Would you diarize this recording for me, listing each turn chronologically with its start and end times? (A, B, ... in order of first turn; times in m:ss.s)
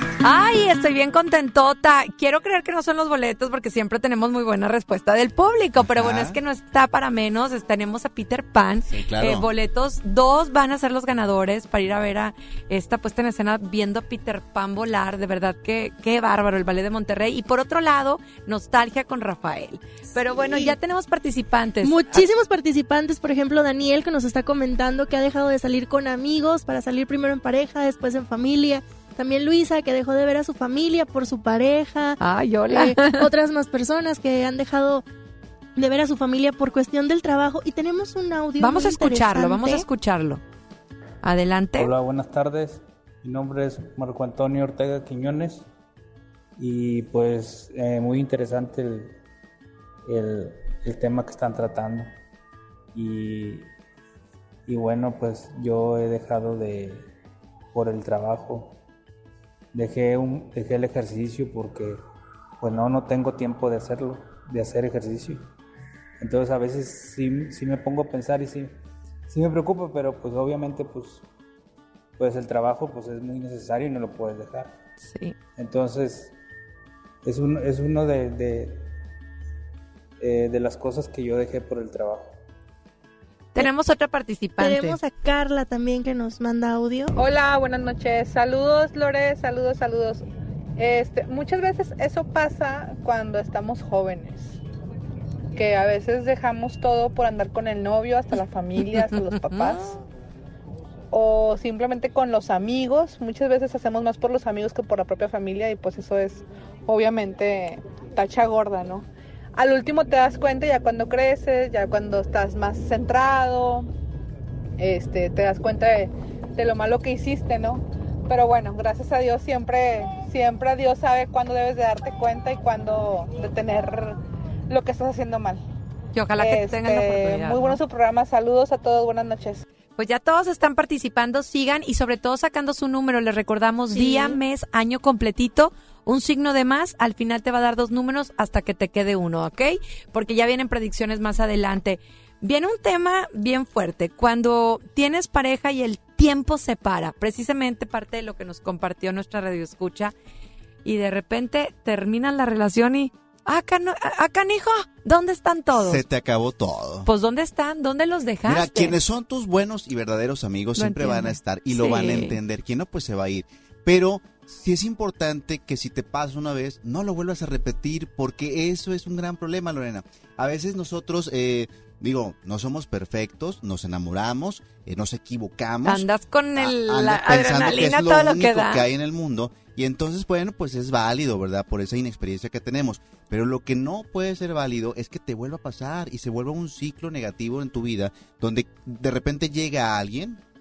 0:00.2-0:22.2 A
0:05.8-0:06.4 B
0:08.9-0:09.5 B
0:20.4-0:20.7 C
0:21.8-0:32.2 C
0:32.2-0:33.3 A
0:32.7-0:35.0 C
0:35.8-0:39.8 C
0:38.6-0:40.4 A
0:41.2-0:41.9 A
0:41.8-0:45.7 D
0:46.6-0:49.2 D
0:50.1-0:52.1 D
0:52.9-0:53.7 D
0:54.7-0:57.1 D
0:57.7-0:58.8 D
0:59.7-1:02.0 D
1:02.6-1:05.4 D
1:06.2-1:08.7 D
1:09.3-1:11.2 D
1:12.2-1:14.7 D
1:15.1-1:15.4 A
1:15.6-1:16.3 D
1:17.2-1:18.8 D
1:20.2-1:22.4 D
1:23.6-1:25.0 A
1:24.6-1:27.2 C
1:27.2-1:30.2 E
1:30.8-1:34.6 E
1:35.6-1:40.0 E
1:38.8-1:39.8 A
1:41.1-1:53.9 E
1:54.8-2:04.2 E
2:04.7-2:05.6 E
2:06.1-2:07.8 A
2:06.4-2:09.6 E
2:10.0-2:30.1 A
2:14.0-2:14.4 E
2:30.8-2:36.0 A
2:35.7-2:37.1 B
2:37.1-2:39.0 A
2:38.4-3:10.4 B
2:40.8-2:42.4 A
2:55.8-2:58.8 A